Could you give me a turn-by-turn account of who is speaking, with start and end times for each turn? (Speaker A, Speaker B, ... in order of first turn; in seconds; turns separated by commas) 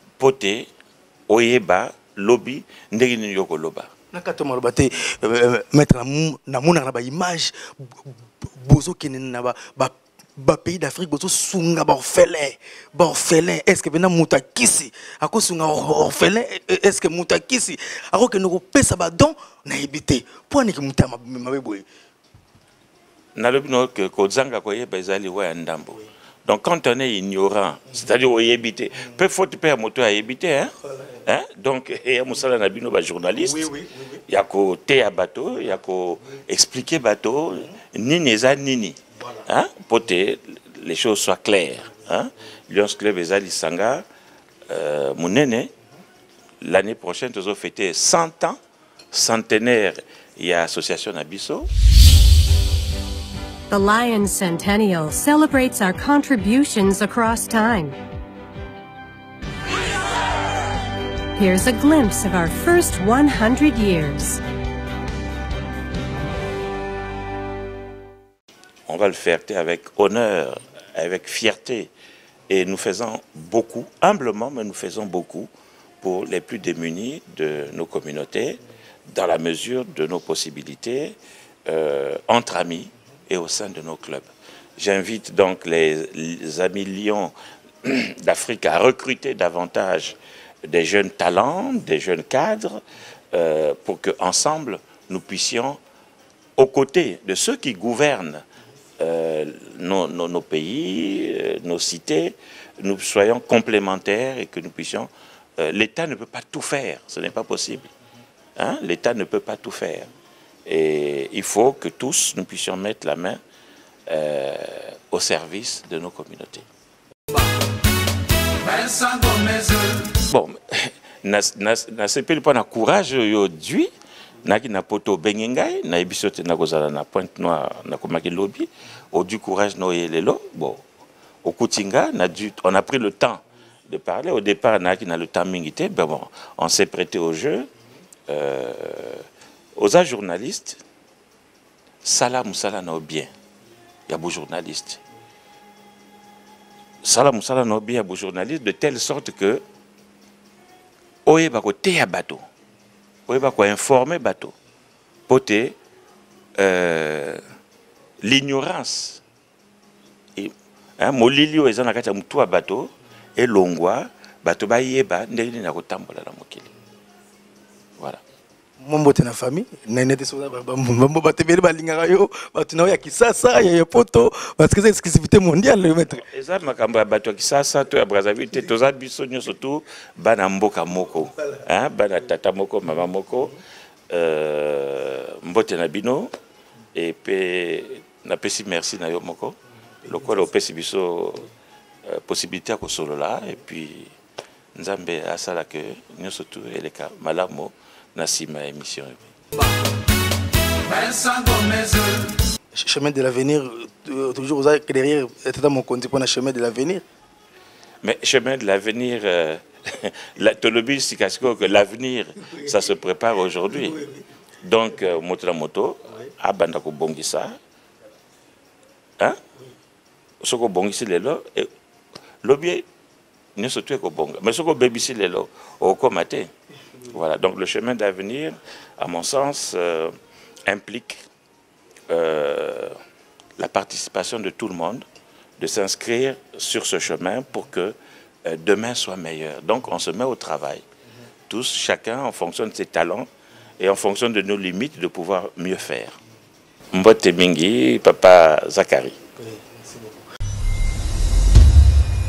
Speaker A: 0.2-0.7, Speaker A: 1.3-3.9, Speaker B: 4.1-21.8, Speaker A: 23.4-30.7, Speaker A: 31.2-33.7, Speaker A: 34.3-44.0, Speaker A: 44.7-45.7, Speaker A: 46.6-48.6, Speaker A: 49.1-51.7, Speaker C: 53.7-58.0, Speaker C: 61.4-64.4, Speaker A: 68.9-71.9, Speaker A: 72.5-75.5, Speaker A: 76.0-87.3, Speaker A: 87.8-92.8, Speaker A: 93.3-95.8, Speaker A: 96.6-98.4, Speaker A: 99.0-107.9, Speaker A: 108.5-110.1, Speaker A: 110.7-113.4, Speaker A: 114.1-116.7, Speaker A: 120.2-123.9, Speaker A: 124.4-130.8, Speaker A: 131.4-137.7, Speaker A: 138.3-140.8, Speaker A: 142.0-143.3, Speaker A: 144.1-145.0, Speaker A: 147.0-149.6, Speaker A: 151.2-152.4, Speaker A: 153.3-154.5, Speaker A: 155.3-155.8, Speaker A: 156.6-157.4, Speaker A: 158.2-159.2, Speaker A: 160.3-166.7, Speaker B: 168.8-176.2, Speaker A: 176.1-183.6, Speaker A: 184.1-186.3, Speaker A: 186.9-191.5, Speaker A: 192.0-194.1, Speaker A: 194.7-199.2, Speaker B: 202.7-207.0, Speaker A: 208.0-214.0, Speaker B: 213.8-214.2, Speaker A: 214.6-217.6, Speaker A: 220.4-221.7, Speaker A: 222.4-222.8, Speaker A: 223.6-226.5, Speaker A: 227.1-230.1, Speaker A: 230.7-231.2, Speaker A: 232.1-233.0, Speaker A: 233.6-235.1, Speaker A: 235.6-240.8, Speaker A: 241.5-243.3, Speaker A: 243.8-246.2, Speaker A: 246.9-249.2, Speaker B: 249.4-250.2